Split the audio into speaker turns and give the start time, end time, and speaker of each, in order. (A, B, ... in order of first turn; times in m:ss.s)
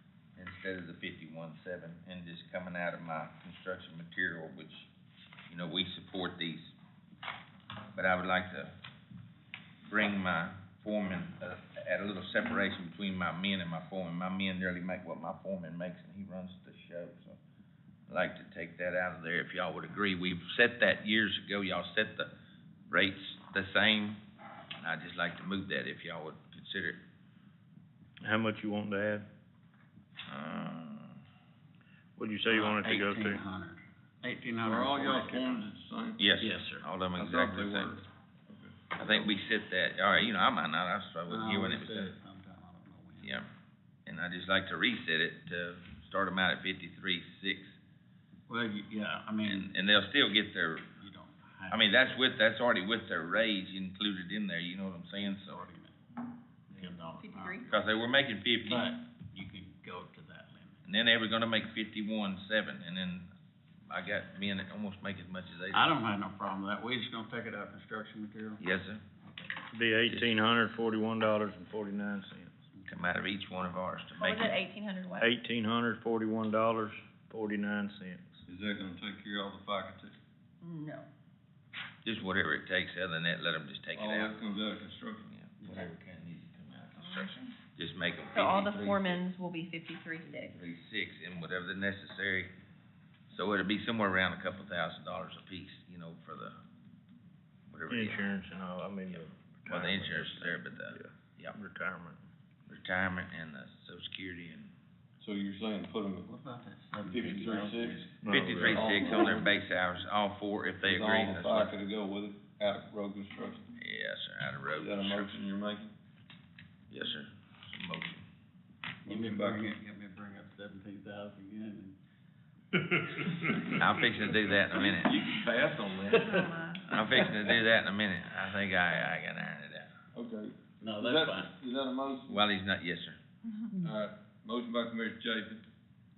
0:00.4-0:04.9 A
0:05.5-0:06.7 A
0:07.9-0:08.7 A
0:09.9-0:17.4 A
0:18.1-0:22.3 A
0:22.9-0:24.2 A
0:24.8-0:27.0 A
0:28.2-0:29.3 B
0:30.3-0:31.2 B
0:32.2-0:33.4 B
0:32.5-0:35.6 C
0:34.6-0:36.2 D
0:36.2-0:38.0 A
0:36.4-0:36.8 C
0:37.2-0:39.3 D
0:38.9-0:42.1 A
0:41.3-0:43.3 C
0:43.2-0:43.5 A
0:44.0-0:47.8 A
0:48.5-0:49.7 C
0:49.4-0:50.9 A
0:51.0-0:52.0 C
0:51.7-0:55.6 A
0:55.2-0:56.0 C
0:56.7-0:57.7 C
0:57.2-0:57.7 E
0:57.7-0:59.0 A
0:58.6-1:00.8 C
1:00.8-1:03.3 A
1:03.9-1:06.0 A
1:05.7-1:08.6 C
1:08.6-1:09.0 A
1:09.7-1:12.5 B
1:10.0-1:10.3 A
1:12.8-1:14.5 A
1:14.2-1:15.3 E
1:15.2-1:18.4 B
1:18.5-1:20.2 D
1:20.6-1:21.1 E
1:22.0-1:24.4 A
1:23.9-1:25.3 D
1:25.3-1:29.2 A
1:28.3-1:30.6 E
1:30.5-1:32.5 A
1:33.3-1:36.6 A
1:37.7-1:38.2 A
1:37.9-1:42.2 B
1:39.1-1:41.6 A
1:42.7-1:44.7 A
1:45.2-1:46.4 D
1:46.3-1:48.0 C
1:47.0-1:49.5 D
1:48.2-1:49.4 B
1:48.3-1:51.7 A
1:50.8-1:53.7 D
1:53.8-1:55.4 A
1:54.8-1:55.9 D
1:56.9-1:58.2 A
1:59.0-1:59.8 D
1:59.0-2:02.0 C
2:03.7-2:05.2 A
2:04.7-2:06.8 D
2:06.2-2:06.9 E
2:06.8-2:09.9 A
2:10.1-2:12.4 D
2:10.8-2:11.5 C
2:12.3-2:13.2 A
2:13.8-2:15.6 D